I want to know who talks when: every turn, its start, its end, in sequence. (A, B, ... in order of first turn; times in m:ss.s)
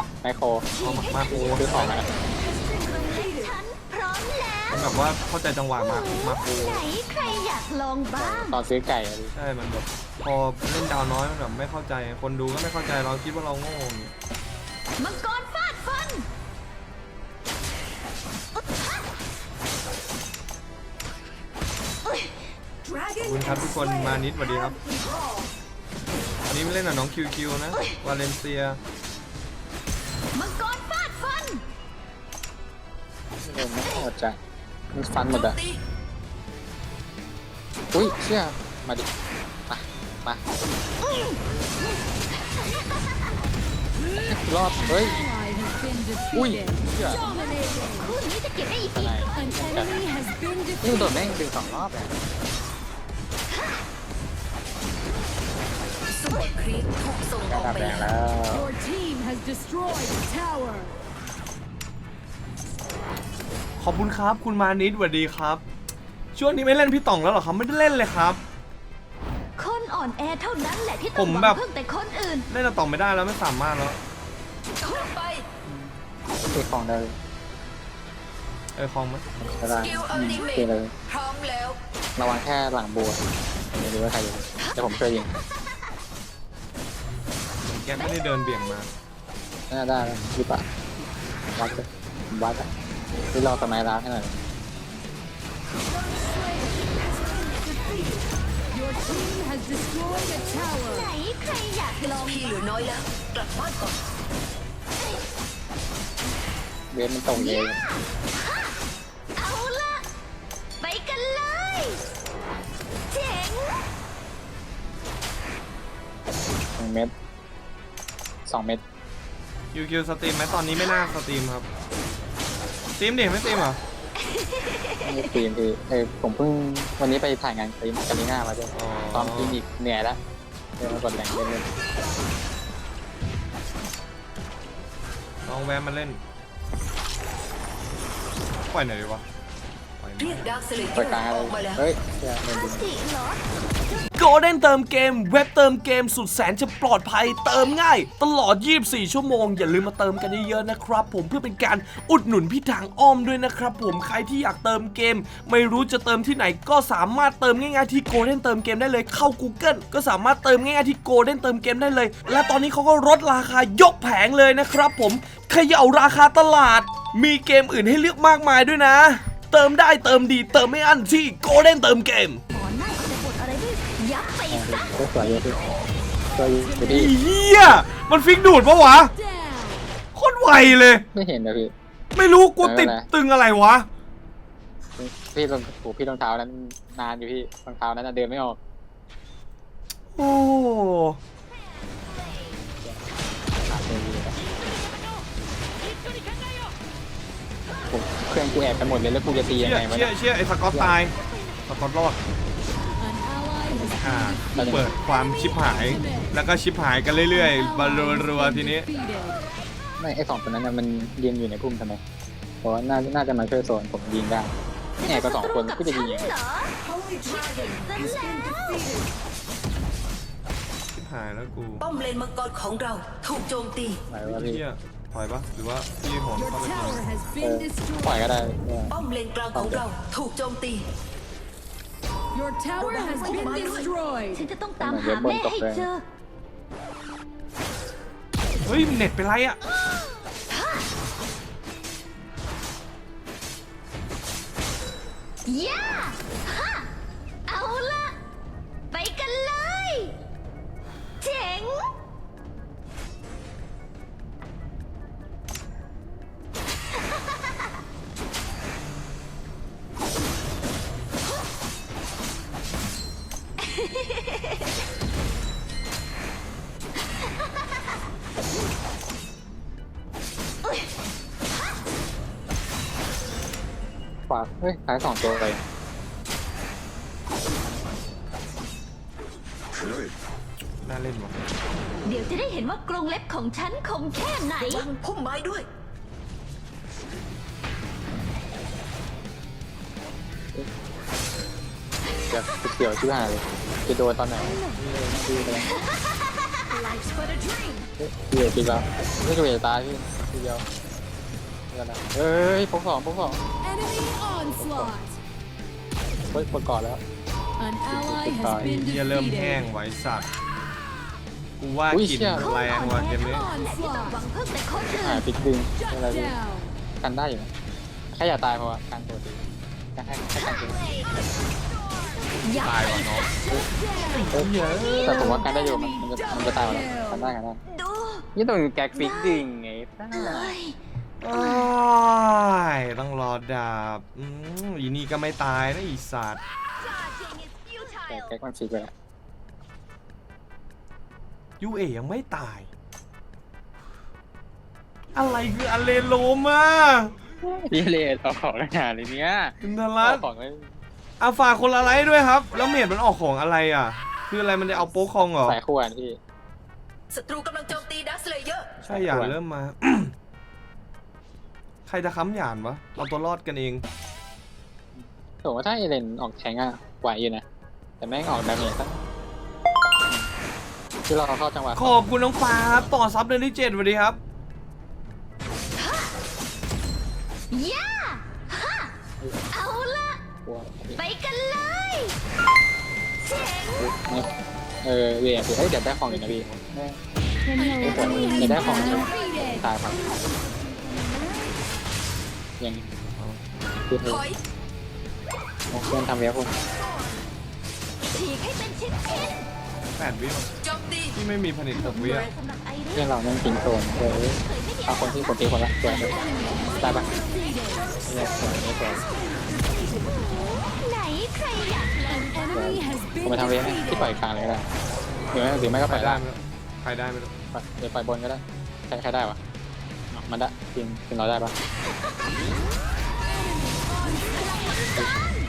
0:00.2-0:00.7 A
0:00.7-0:04.8 B
0:00.8-0:02.0 C
0:01.3-0:02.1 A
0:04.7-0:06.9 C
0:05.8-0:08.6 B
0:08.2-0:09.3 A
0:09.3-0:14.1 C
0:15.0-0:16.2 B
0:23.2-0:24.8 C
0:26.4-0:28.8 C
0:30.3-0:31.6 B
0:33.4-0:34.4 A
0:34.9-0:35.6 A
0:35.5-0:35.8 D
0:37.9-0:39.1 A
0:39.7-0:40.4 A
0:41.0-0:41.4 B
0:44.1-0:45.2 A
0:45.3-0:46.7 E
0:46.3-0:47.5 A
0:47.8-0:49.3 B
0:48.8-0:50.1 A
0:49.8-0:50.7 E
0:50.8-0:52.2 A
0:56.1-0:58.0 D
0:57.4-0:58.7 A
0:58.6-1:00.9 E
1:03.8-1:05.6 C
1:06.3-1:08.4 C
1:09.6-1:12.5 B
1:11.1-1:11.6 C
1:12.5-1:14.0 C
1:14.8-1:15.4 D
1:16.5-1:17.2 A
1:18.7-1:19.2 C
1:19.4-1:20.9 A
1:19.8-1:21.8 D
1:22.2-1:23.2 A
1:23.7-1:25.3 A
1:27.6-1:28.9 C
1:29.7-1:30.6 A
1:31.5-1:32.7 A
1:33.3-1:34.4 A
1:38.8-1:40.9 E
1:40.8-1:42.6 B
1:42.1-1:44.0 D
1:46.9-1:47.8 A
1:47.3-1:48.2 B
1:49.4-1:50.0 B
1:50.8-1:52.1 B
1:53.1-1:53.8 B
1:56.8-1:57.1 A
1:58.4-1:58.8 A
1:59.7-2:01.7 C
2:03.0-2:03.8 C
2:04.2-2:05.4 B
2:05.0-2:10.2 A
2:08.7-2:09.6 C
2:10.8-2:11.7 A
2:15.4-2:16.2 C
2:18.6-2:19.2 C
2:20.0-2:20.7 C
2:20.2-2:21.8 D
2:20.8-2:22.9 A
2:22.5-2:24.0 B
2:24.1-2:52.4 C
2:52.5-2:54.8 B
2:54.5-2:55.6 A
2:56.3-2:57.1 A
2:56.8-2:59.1 C
3:00.1-3:01.0 C
3:01.1-3:01.7 A
3:02.1-3:03.9 C
3:02.6-3:03.1 A
3:05.0-3:08.6 A
3:10.1-3:11.2 C
3:13.6-3:14.4 A
3:17.9-3:20.1 A
3:19.6-3:21.1 C
3:20.7-3:21.0 A
3:21.6-3:22.2 C
3:23.1-3:23.8 E
3:23.9-3:28.9 C
3:24.5-3:24.9 A
3:29.0-3:29.4 E
3:30.0-3:32.0 A
3:32.6-3:36.3 A
3:35.0-3:39.0 B
3:40.9-3:41.9 C
3:41.8-3:44.0 D
3:44.1-3:44.6 A
3:44.2-3:47.0 C
3:46.8-3:48.0 E
3:47.4-3:49.9 A
3:48.9-3:50.8 D
3:52.3-3:53.0 E
3:52.8-3:53.9 D
3:53.2-3:53.6 B
3:54.0-3:54.3 E
3:54.3-3:56.0 B
3:54.8-3:55.9 A
3:58.6-3:59.6 C
3:59.9-4:00.9 B
4:05.4-4:06.9 B
4:07.5-4:08.2 B
4:08.9-4:10.2 B
4:11.2-4:11.9 B
4:34.3-4:35.6 A
4:40.8-4:41.4 C
4:42.0-4:44.9 B
4:44.6-4:45.6 D
4:52.3-4:55.7 A
4:58.0-5:00.6 A
5:01.7-5:03.4 A
5:03.7-5:05.1 E
5:04.6-5:05.0 A
5:06.3-5:07.0 A
5:07.6-5:08.6 E
5:07.9-5:08.7 A
5:08.5-5:10.3 C
5:11.6-5:13.5 C
5:11.9-5:12.5 A
5:12.4-5:15.2 B
5:15.0-5:16.4 A
5:17.0-5:17.5 A
5:18.1-5:19.4 A
5:19.9-5:20.9 A
5:22.1-5:23.3 B
5:22.5-5:23.3 C
5:24.0-5:24.4 B
5:24.3-5:27.6 A
5:24.3-5:25.5 C
5:27.7-5:28.3 B
5:28.3-5:30.5 A
5:28.9-5:29.5 B
5:30.1-5:31.7 B
5:31.2-5:36.4 C
5:36.8-5:38.3 B
5:38.1-5:38.9 A
5:41.6-5:42.7 C
5:45.1-5:47.1 C
5:47.4-5:50.8 A
5:49.6-5:50.2 C
5:51.2-5:55.6 C
5:55.3-5:56.2 A
5:57.1-5:58.7 D
5:58.8-6:00.1 C
5:58.9-5:59.4 A
6:01.8-6:03.8 C
6:05.0-6:07.4 A
6:08.0-6:09.0 A
6:11.1-6:12.0 A
6:11.8-6:14.2 C
6:15.8-6:16.1 B
6:17.5-6:18.9 B
6:19.5-6:20.2 B
6:20.4-6:21.0 A
6:21.0-6:22.2 B
6:23.2-6:23.8 B
6:23.8-6:27.0 A
6:26.0-6:26.6 C
6:27.5-6:29.0 B
6:27.8-6:30.0 A
6:32.6-6:32.9 A
6:33.2-6:33.4 C
6:33.9-6:34.3 A
6:35.7-6:36.5 A
6:38.1-6:39.5 B
6:40.0-6:40.5 C
6:40.7-6:41.1 D
6:41.1-6:42.3 C
6:41.7-6:43.1 B
6:42.9-6:46.2 A
6:44.4-6:48.0 B
6:46.8-6:47.1 A
6:48.0-6:49.1 A
6:49.9-6:52.5 B
6:52.3-6:53.5 E
6:52.5-6:54.7 A
6:55.3-6:56.2 A
6:55.7-6:57.3 C
6:57.5-6:59.4 A
7:00.1-7:01.5 A